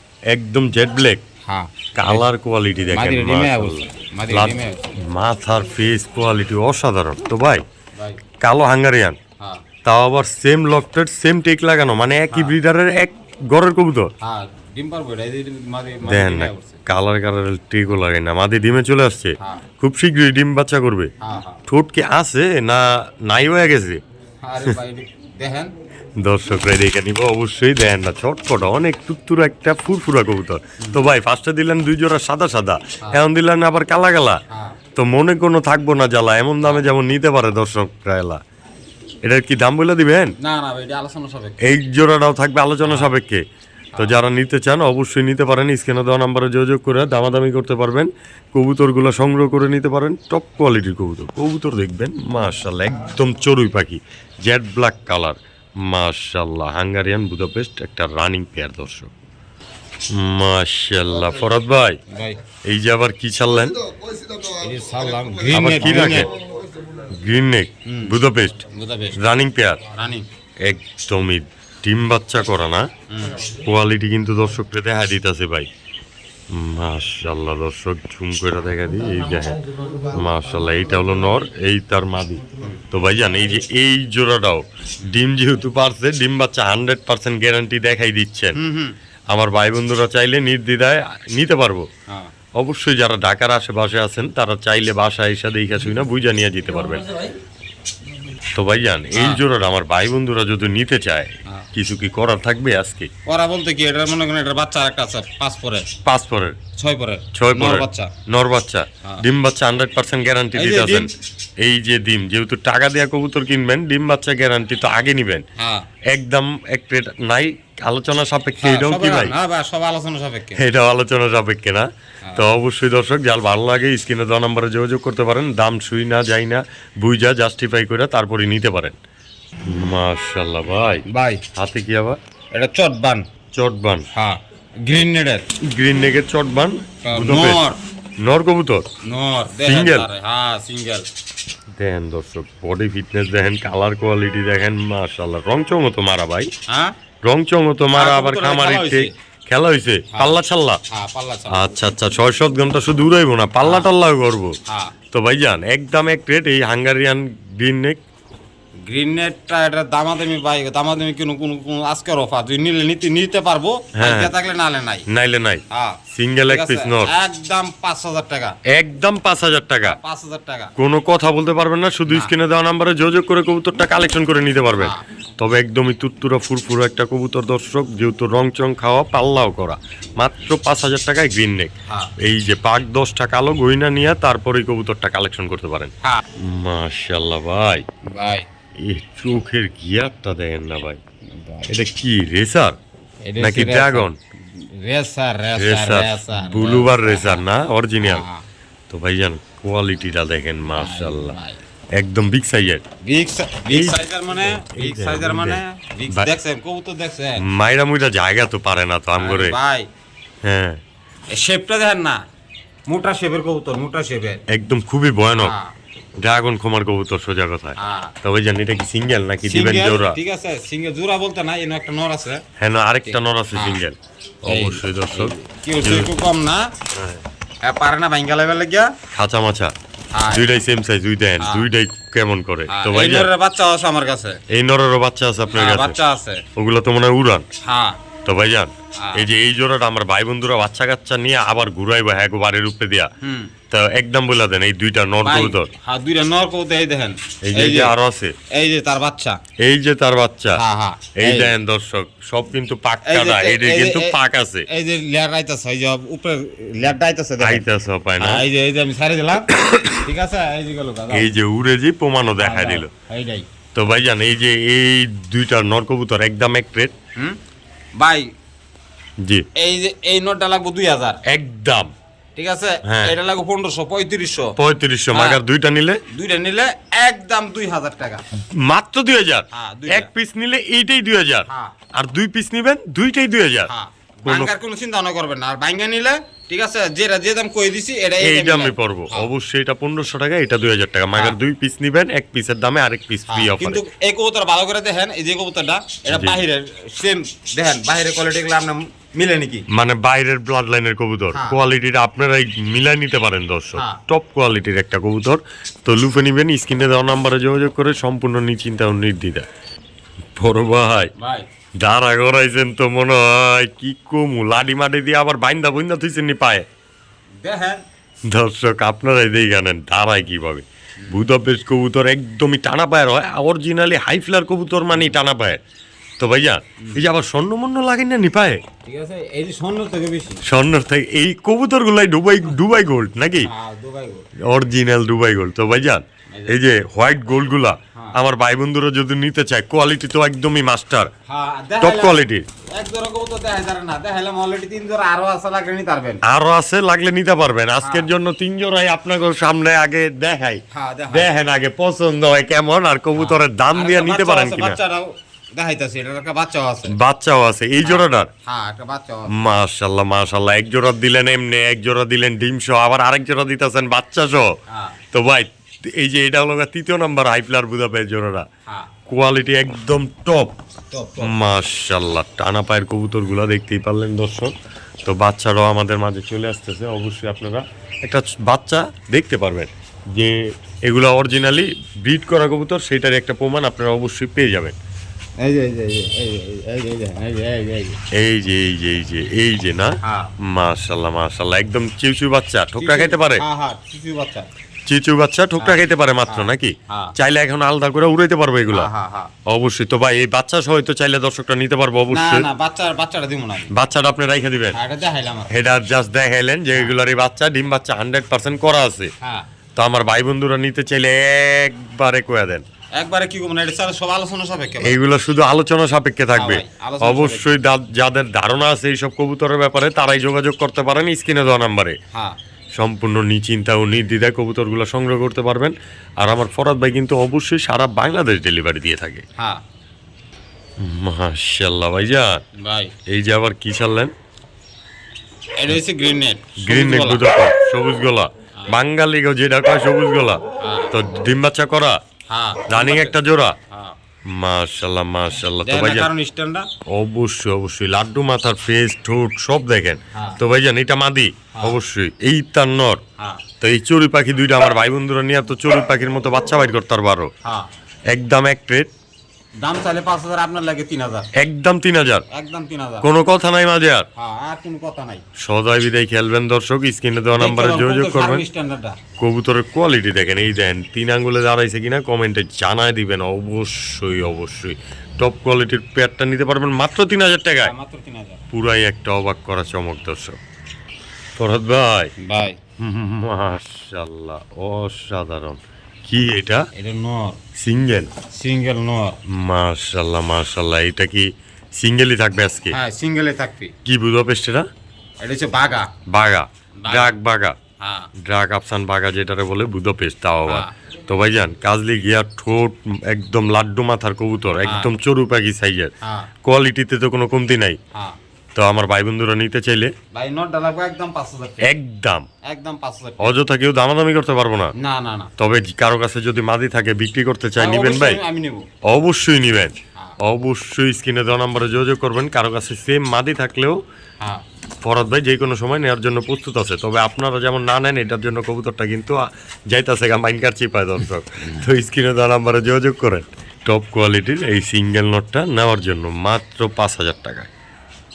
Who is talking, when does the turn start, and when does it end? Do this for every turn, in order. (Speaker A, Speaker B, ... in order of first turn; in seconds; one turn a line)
Speaker A: 0.3-1.2
Speaker B: 1.4-2.2
Speaker A: 1.9-7.6
Speaker B: 2.9-4.9
Speaker B: 7.9-8.2
Speaker A: 8.4-9.2
Speaker B: 9.4-9.6
Speaker A: 9.8-14.1
Speaker B: 12.3-12.5
Speaker B: 14.2-16.8
Speaker A: 16.0-21.1
Speaker B: 19.4-19.6
Speaker B: 21.2-21.6
Speaker A: 21.7-24.0
Speaker B: 24.4-25.7
Speaker A: 26.2-34.4
Speaker B: 34.5-34.8
Speaker A: 34.9-38.4
Speaker A: 39.2-40.4
Speaker B: 40.4-41.6
Speaker A: 41.6-43.4
Speaker B: 42.8-43.1
Speaker B: 43.9-44.2
Speaker A: 44.0-59.1
Speaker A: 60.1-62.0
Speaker B: 62.1-62.4
Speaker A: 62.6-63.8
Speaker B: 64.5-66.3
Speaker A: 65.5-66.3
Speaker A: 67.1-68.6
Speaker B: 67.8-68.1
Speaker B: 68.7-69.2
Speaker A: 69.2-69.8
Speaker B: 69.9-70.2
Speaker A: 70.6-72.9
Speaker B: 73.1-73.4
Speaker A: 73.5-75.7
Speaker A: 76.5-88.6
Speaker B: 88.5-88.9
Speaker A: 89.3-91.9
Speaker A: 92.5-97.1
Speaker A: 98.5-103.1
Speaker B: 99.1-99.4
Speaker B: 103.2-105.9
Speaker A: 106.0-106.6
Speaker B: 106.8-108.1
Speaker A: 107.3-115.4
Speaker B: 110.5-111.1
Speaker B: 115.6-115.9
Speaker A: 116.0-119.3
Speaker B: 118.6-120.6
Speaker A: 120.5-129.0
Speaker A: 129.6-132.2
Speaker B: 131.1-131.4
Speaker B: 132.5-133.3
Speaker A: 133.5-134.1
Speaker B: 134.1-135.5
Speaker A: 135.6-137.7
Speaker B: 137.0-137.8
Speaker A: 138.2-138.9
Speaker B: 139.0-141.1
Speaker A: 139.6-140.1
Speaker A: 141.7-146.5
Speaker B: 146.7-146.9
Speaker A: 147.2-150.8
Speaker B: 147.9-149.1
Speaker B: 150.1-150.4
Speaker B: 150.9-151.7
Speaker A: 151.5-154.6
Speaker B: 153.6-153.9
Speaker B: 154.7-154.9
Speaker A: 155.1-158.0
Speaker B: 158.9-165.1
Speaker A: 163.9-164.3
Speaker A: 165.1-167.1
Speaker B: 165.7-168.6
Speaker A: 168.7-170.0
Speaker B: 169.8-170.7
Speaker A: 170.8-187.8
Speaker B: 174.8-175.0
Speaker B: 188.0-188.5
Speaker A: 188.8-191.0
Speaker B: 191.3-191.7
Speaker A: 191.7-192.8
Speaker B: 193.2-197.4
Speaker A: 193.4-194.2
Speaker A: 195.6-198.2
Speaker B: 198.0-198.5
Speaker A: 198.9-201.3
Speaker B: 200.7-201.6
Speaker A: 201.9-202.8
Speaker B: 203.0-207.4
Speaker A: 203.7-206.3
Speaker A: 207.4-209.6
Speaker B: 209.2-209.9
Speaker A: 210.4-210.8
Speaker B: 211.3-212.2
Speaker B: 212.9-214.4
Speaker A: 214.5-215.5
Speaker B: 215.4-215.7
Speaker A: 216.2-220.2
Speaker B: 217.8-218.1
Speaker B: 219.4-222.4
Speaker A: 222.6-226.1
Speaker B: 223.1-223.8
Speaker B: 224.4-226.7
Speaker A: 226.9-227.2
Speaker B: 227.6-228.9
Speaker A: 229.1-229.7
Speaker B: 230.1-230.6
Speaker A: 230.3-233.3
Speaker B: 231.4-231.7
Speaker B: 232.7-234.4
Speaker A: 234.5-235.9
Speaker B: 235.5-236.4
Speaker A: 236.6-237.5
Speaker B: 237.6-238.0
Speaker A: 238.2-243.1
Speaker B: 239.0-239.2
Speaker B: 243.2-243.5
Speaker A: 243.7-245.7
Speaker B: 245.2-247.9
Speaker A: 247.4-248.3
Speaker B: 248.5-249.4
Speaker A: 249.6-250.6
Speaker B: 250.5-251.5
Speaker A: 251.2-254.7
Speaker B: 253.0-257.6
Speaker A: 257.4-258.4
Speaker B: 258.2-261.3
Speaker A: 259.5-260.1
Speaker A: 261.1-262.9
Speaker B: 262.4-263.5
Speaker A: 263.7-266.9
Speaker B: 267.9-268.3
Speaker A: 269.2-269.5
Speaker B: 269.5-271.2
Speaker A: 271.2-271.9
Speaker B: 272.4-274.6
Speaker A: 272.8-273.1
Speaker A: 274.6-276.0
Speaker B: 275.1-275.4
Speaker B: 276.1-278.2
Speaker A: 278.5-283.7
Speaker B: 279.5-280.1
Speaker B: 281.5-281.7
Speaker B: 283.7-289.3
Speaker A: 284.2-284.5
Speaker A: 288.2-293.8
Speaker B: 293.3-299.6
Speaker A: 296.1-296.4
Speaker A: 299.7-309.4
Speaker B: 301.3-301.6
Speaker B: 303.7-304.0
Speaker A: 310.4-311.1
Speaker B: 311.1-311.5
Speaker A: 311.8-316.6
Speaker B: 317.4-317.8
Speaker A: 318.3-325.6
Speaker A: 326.2-328.6
Speaker B: 328.8-330.4
Speaker A: 330.4-333.5
Speaker B: 333.4-334.3
Speaker A: 334.4-341.1
Speaker B: 336.3-336.6
Speaker B: 341.3-342.2
Speaker A: 341.8-342.4
Speaker B: 342.7-346.2
Speaker A: 346.2-354.8
Speaker B: 347.8-348.1
Speaker B: 350.7-351.3
Speaker B: 353.1-356.9
Speaker A: 356.9-358.3
Speaker B: 357.8-359.4
Speaker A: 359.3-364.6
Speaker B: 364.7-365.0
Speaker A: 365.1-368.5
Speaker A: 369.1-370.5
Speaker B: 370.9-371.4
Speaker A: 371.2-384.8
Speaker B: 385.4-388.0
Speaker A: 388.1-393.4
Speaker B: 390.0-390.3
Speaker B: 392.8-394.5
Speaker A: 394.9-398.9
Speaker B: 395.6-397.1
Speaker B: 398.7-399.3
Speaker A: 399.4-402.5
Speaker B: 402.1-403.7
Speaker A: 403.7-404.8
Speaker B: 404.7-405.5
Speaker A: 405.5-409.1
Speaker B: 409.2-409.5
Speaker A: 409.8-412.6
Speaker B: 412.9-415.0
Speaker A: 414.8-422.0
Speaker B: 416.4-417.5
Speaker A: 422.8-429.2
Speaker B: 429.4-429.6
Speaker A: 430.8-432.4
Speaker B: 432.6-432.9
Speaker A: 433.1-434.1
Speaker B: 435.6-437.2
Speaker A: 436.6-442.0
Speaker B: 440.6-440.9
Speaker B: 442.3-443.9
Speaker A: 442.7-443.6
Speaker A: 444.3-446.1
Speaker B: 445.6-446.7
Speaker A: 446.9-453.0
Speaker B: 450.1-450.4
Speaker A: 453.6-457.3
Speaker B: 457.4-457.7
Speaker A: 458.1-458.9
Speaker B: 459.6-461.3
Speaker A: 461.3-462.2
Speaker B: 462.3-463.1
Speaker A: 463.0-464.1
Speaker B: 464.1-465.2
Speaker A: 465.4-468.5
Speaker B: 467.3-469.0
Speaker A: 469.2-477.7
Speaker B: 477.6-478.4
Speaker A: 478.5-480.4
Speaker A: 481.4-482.1
Speaker B: 482.2-482.6
Speaker A: 482.8-486.7
Speaker B: 486.7-487.4
Speaker A: 487.6-488.1
Speaker B: 488.3-489.2
Speaker A: 489.3-492.8
Speaker B: 492.7-493.7
Speaker A: 493.8-494.6
Speaker B: 495.2-495.9
Speaker A: 496.1-497.6
Speaker B: 496.8-497.1
Speaker B: 497.8-498.1
Speaker A: 498.2-505.9
Speaker B: 500.5-500.7
Speaker B: 504.6-504.9
Speaker B: 506.0-506.3
Speaker A: 506.4-507.8
Speaker A: 508.5-509.9
Speaker B: 510.1-511.7
Speaker A: 511.6-512.3
Speaker B: 512.4-513.4
Speaker A: 513.2-514.7
Speaker B: 514.8-515.3
Speaker A: 515.4-518.2
Speaker B: 517.6-518.7
Speaker A: 518.8-523.8
Speaker A: 524.8-537.5